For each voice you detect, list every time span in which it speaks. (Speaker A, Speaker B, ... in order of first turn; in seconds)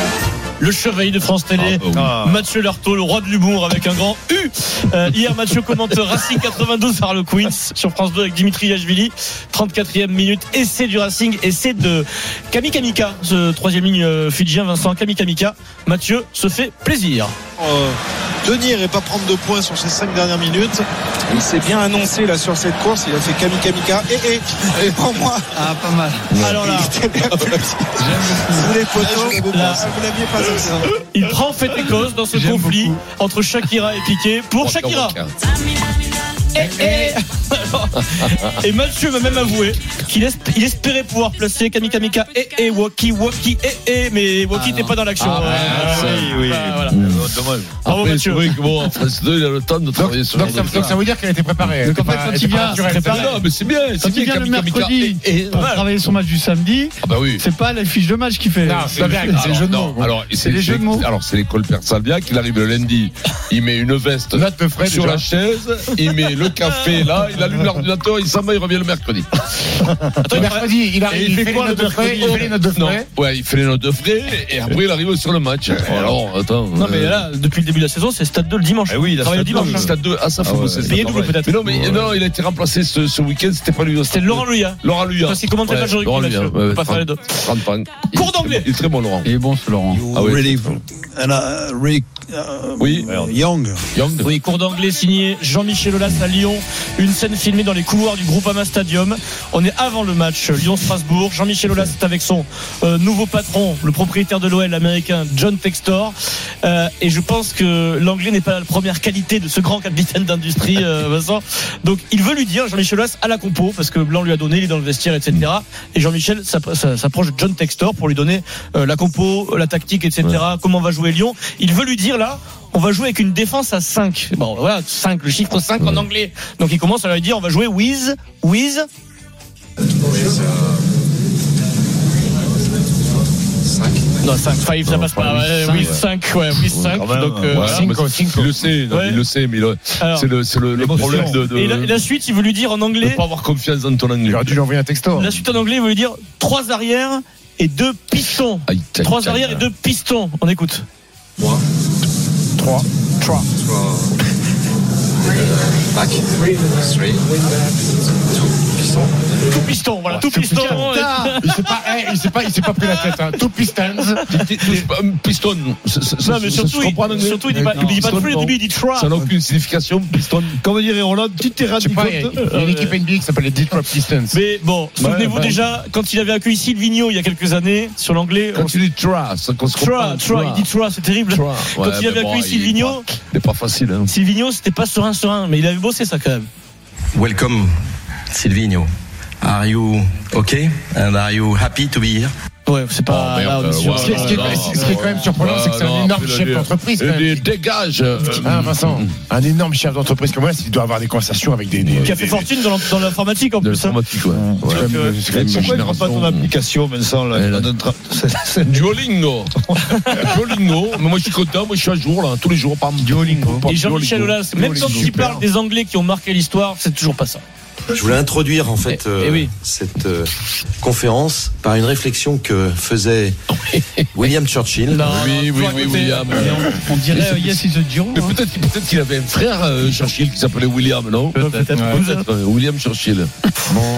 Speaker A: 0.6-17.3, 26.4-27.0, 29.5-29.9, 31.0-35.2, 36.5-47.0, 47.9-48.6, 52.7-53.4, 55.5-55.8, 70.2-71.3, 72.2-72.5, 76.8-79.9, 80.9-81.8, 84.1-87.4, 88.1-88.7, 94.2-128.9, 134.2-137.9, 138.9-139.2, 140.0-140.3, 141.1-143.2, 145.1-150.8, 153.2-153.5, 159.5-162.0, 162.8-163.4, 166.2-169.1, 172.4-173.0, 174.3-178.8, 179.8-183.1, 184.1-186.5, 192.7-195.0, 202.0-204.0, 204.7-205.2, 213.7-217.4, 218.9-219.5, 224.9-226.7, 231.3-232.3
Speaker B: 1.6-2.2, 26.3-26.7, 34.6-35.3, 38.2-38.5, 45.2-51.0, 53.0-55.8, 57.0-57.5, 58.9-69.3, 72.6-77.2, 79.6-89.3, 90.1-90.8, 92.8-93.1, 93.9-94.3, 125.8-126.1, 134.8-136.0, 136.7-142.0, 143.0-144.6, 148.7-149.6, 164.3-170.6, 175.0-175.6, 178.5-180.7, 181.3-184.1, 193.1-199.1, 201.8-202.2, 203.6-206.5, 207.3-207.7, 208.6-215.3, 225.0-233.3
Speaker C: 1.9-2.4, 45.7-46.8, 71.1-72.5, 75.8-76.2, 78.9-81.2, 90.0-90.8, 91.5-92.1, 92.7-93.8, 137.0-137.8, 140.7-141.4, 170.6-172.4, 204.4-208.9, 209.7-210.2
Speaker D: 17.6-25.5, 26.5-30.9
Speaker E: 25.5-26.3, 28.0-29.4, 32.3-33.0, 51.8-53.0, 54.0-59.6, 60.3-61.1, 89.2-90.3, 91.2-93.6, 160.8-161.4, 167.6-168.2, 213.0-213.7, 214.7-215.1, 226.3-228.4, 231.3-231.9
Speaker F: 49.9-53.4, 58.6-60.1, 64.3-65.3, 70.3-73.1, 135.7-136.0, 137.6-138.6, 144.2-145.4, 152.6-152.8, 160.1-164.4, 171.8-174.4, 193.9-197.4, 198.4-202.5, 204.6-205.6
Speaker G: 187.1-187.8, 188.3-192.3, 217.9-220.3, 220.8-223.4, 224.2-225.0